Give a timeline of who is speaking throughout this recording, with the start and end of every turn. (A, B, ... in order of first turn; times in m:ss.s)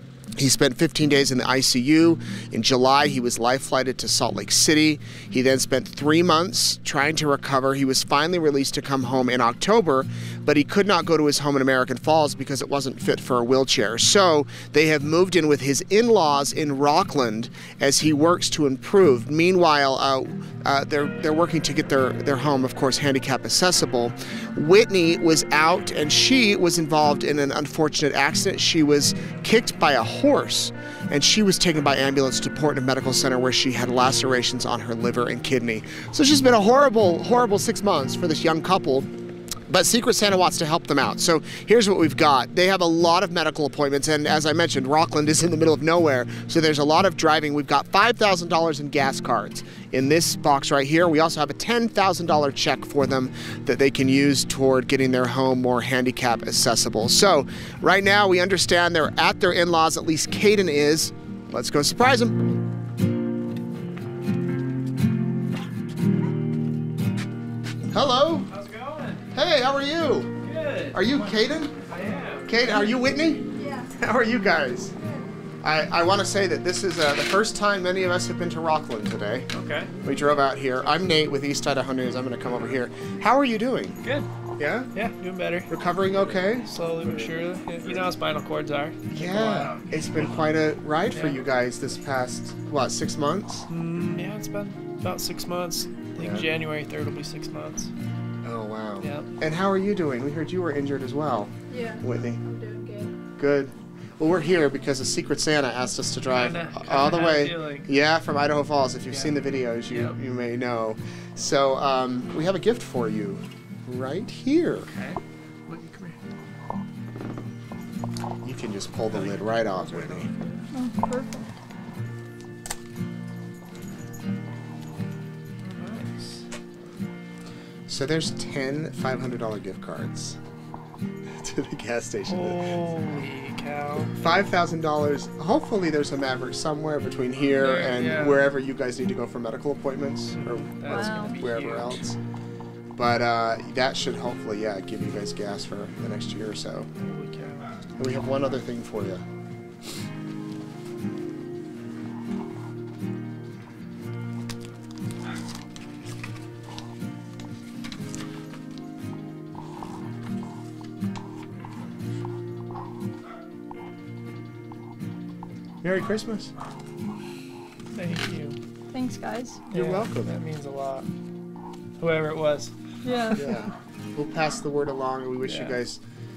0:00.4-0:39.1 A
0:39.7-1:02.4 A
1:07.9-1:08.5 A
1:08.5-1:09.3 B
1:09.3-1:10.3 A
1:10.4-1:11.3 B
1:10.9-1:11.7 A
1:11.8-1:12.9 B
1:12.4-1:14.9 A
1:13.5-1:13.9 C
1:15.6-1:19.5 A
1:19.5-1:19.9 B
1:20.0-1:24.0 A
1:24.0-1:24.3 B
1:24.6-1:24.9 A
1:24.9-1:25.7 B
1:25.7-1:28.0 A
1:26.5-1:30.5 B
1:29.1-1:33.7 A
1:31.1-1:31.4 B
1:33.7-1:37.9 B
1:36.2-1:36.5 A
1:38.4-1:42.4 A
1:39.0-1:39.3 B
1:41.7-1:43.1 C
1:43.3-1:54.9 A
1:46.3-1:47.9 B
1:49.1-1:50.2 B
1:54.8-1:56.2 B
1:58.4-2:00.3 A
1:59.1-2:00.6 B
2:00.7-2:01.5 C
2:05.6-2:06.4 B
2:07.9-2:10.4 A
2:11.3-2:12.9 A
2:12.3-2:14.1 B
2:14.1-2:22.2 A
2:17.5-2:18.5 B
2:20.3-2:22.0 B
2:20.9-2:21.4 C
2:23.0-2:26.9 A
2:27.0-2:27.8 B
2:28.0-2:29.2 A
2:45.8-2:46.5 A
2:47.9-2:48.6 B
2:48.9-2:49.6 C
2:49.7-2:50.3 A
2:49.7-2:51.1 B
2:52.0-2:52.7 B
2:53.0-2:53.4 C
2:53.3-2:56.0 A
2:55.4-2:55.8 B